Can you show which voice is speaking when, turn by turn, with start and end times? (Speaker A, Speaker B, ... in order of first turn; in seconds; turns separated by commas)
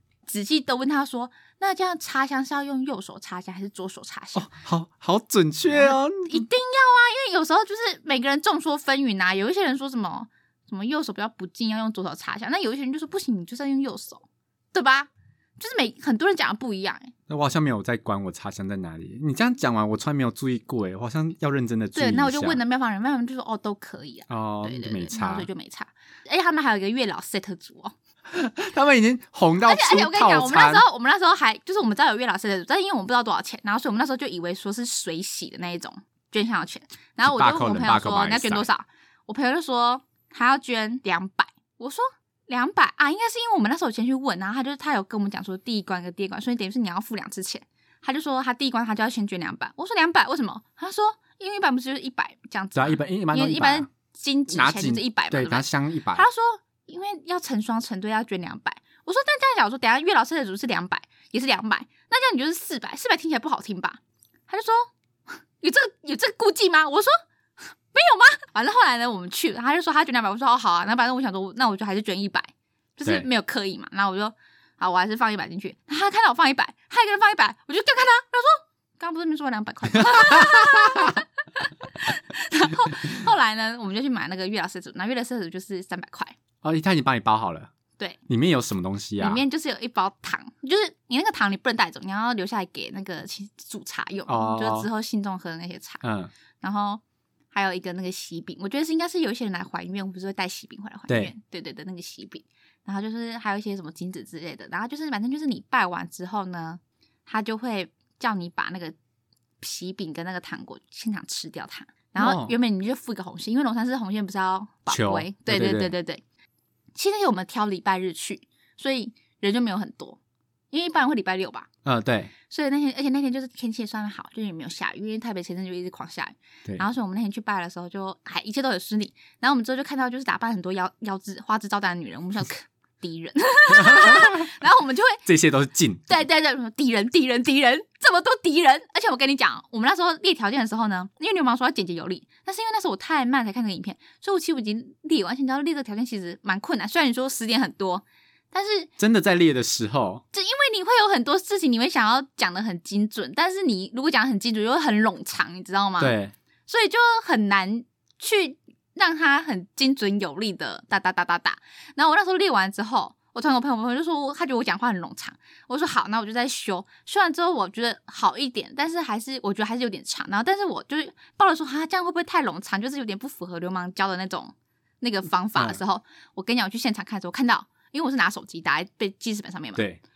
Speaker A: 0.3-4.5, Speaker B: 4.3-6.4, Speaker A: 5.7-17.1, Speaker B: 17.3-22.6, Speaker A: 21.9-27.9, Speaker B: 24.3-25.5, Speaker B: 28.3-30.9, Speaker A: 29.6-64.9, Speaker B: 37.2-38.7, Speaker B: 52.8-53.9, Speaker B: 54.5-56.2, Speaker A: 65.6-67.1, Speaker A: 67.9-86.4, Speaker B: 79.9-81.2, Speaker B: 86.6-87.7, Speaker B: 88.3-89.4, Speaker A: 89.2-96.0, Speaker B: 94.3-94.9, Speaker B: 96.0-96.3, Speaker A: 96.6-109.0, Speaker A: 109.6-116.2, Speaker B: 112.2-112.5, Speaker B: 114.9-115.9, Speaker A: 117.0-120.2, Speaker A: 120.7-121.7, Speaker B: 121.8-122.3, Speaker A: 122.5-135.2, Speaker B: 133.7-134.5, Speaker B: 135.3-136.1, Speaker A: 136.1-148.9, Speaker B: 149.0-150.2, Speaker A: 150.3-156.1, Speaker B: 156.0-156.3, Speaker A: 156.7-179.8